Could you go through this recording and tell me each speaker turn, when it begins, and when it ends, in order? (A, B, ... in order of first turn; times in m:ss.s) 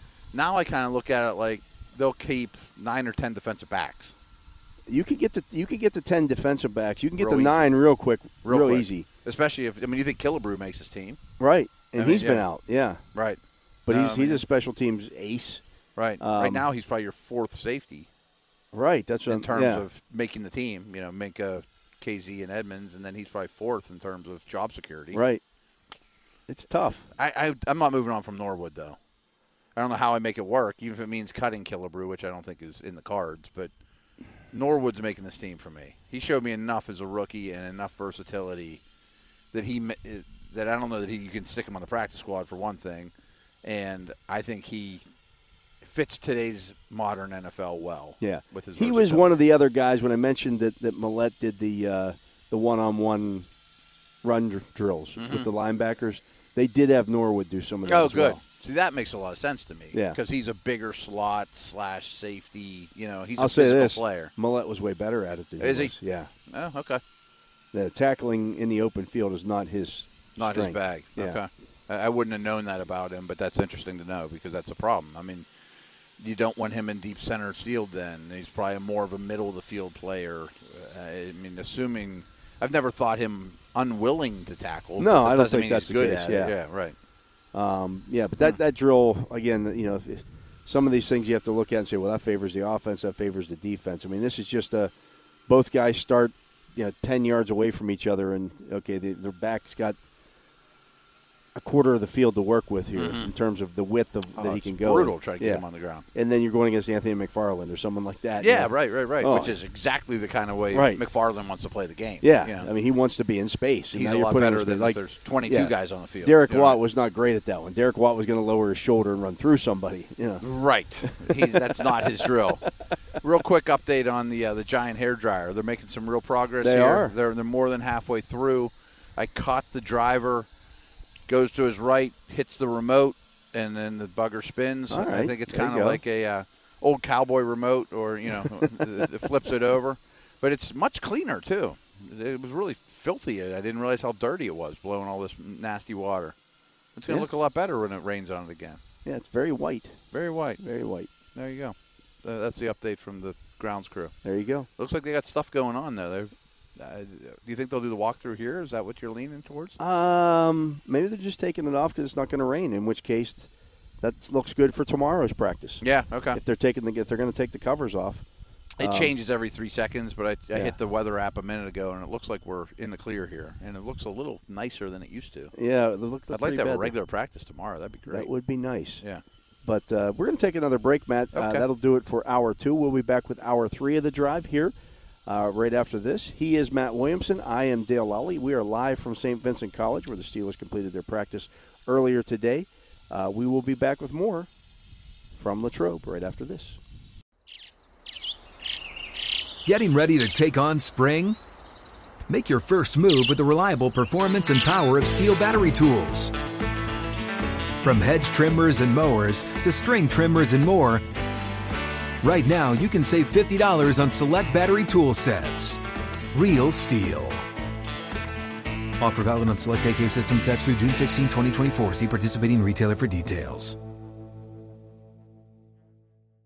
0:00.3-0:04.1 A
0:04.9-0:09.1 B
0:07.2-0:07.7 A
0:08.4-0:11.2 A
0:11.4-0:13.0 B
0:12.0-0:12.4 A
0:13.1-0:14.4 A
0:13.8-0:15.6 B
0:16.0-0:18.1 A
0:16.2-0:16.6 B
0:18.7-0:19.8 B
0:19.3-0:25.2 A
0:25.1-0:25.4 B
0:26.5-0:27.1 B
0:27.2-0:29.0 A
0:29.7-0:33.7 A
0:34.5-0:38.8 A
0:39.5-0:43.1 A
0:43.6-0:45.0 A
0:45.8-0:49.3 A
0:48.2-0:53.5 B
0:54.2-0:58.4 B
0:55.2-0:55.5 A
0:57.8-1:04.3 A
0:59.9-1:00.2 B
1:03.4-1:06.3 B
1:05.6-1:05.9 A
1:06.5-1:07.0 A
1:07.7-1:11.4 B
1:10.4-1:15.4 A
1:16.2-1:26.9 A
1:25.0-1:26.5 B
1:27.5-1:34.9 B
1:35.5-1:40.0 B
1:41.5-1:45.6 B
1:43.0-1:43.3 A
1:44.4-1:46.0 A
1:46.1-1:49.5 B
1:48.4-1:52.7 A
1:50.7-1:51.0 B
1:52.2-2:00.4 B
1:53.9-1:56.8 A
2:00.4-2:02.6 A
2:01.0-2:02.6 B
2:03.2-2:10.5 A
2:06.6-2:07.1 B
2:11.3-2:26.3 A
2:14.9-2:16.0 B
2:27.0-2:28.8 A
2:29.0-2:30.0 B
2:30.1-2:30.6 A
2:30.6-2:31.1 B
2:31.3-2:34.1 A
2:34.2-2:34.7 B
2:34.8-2:39.8 A
2:39.8-2:43.5 B
2:44.0-2:48.2 B
2:45.8-2:46.4 A
2:48.8-2:55.5 A
2:48.8-2:49.1 B
2:55.5-2:56.9 B
2:56.3-2:58.3 A
2:58.1-2:59.0 B
2:59.6-3:04.7 B
3:01.3-3:01.6 A
3:05.2-3:14.5 B
3:15.3-3:16.8 B
3:19.6-3:21.4 C
3:22.3-3:26.3 C
3:27.8-3:31.0 C
3:32.2-3:35.8 C
3:36.3-3:37.4 C
3:39.0-3:43.8 C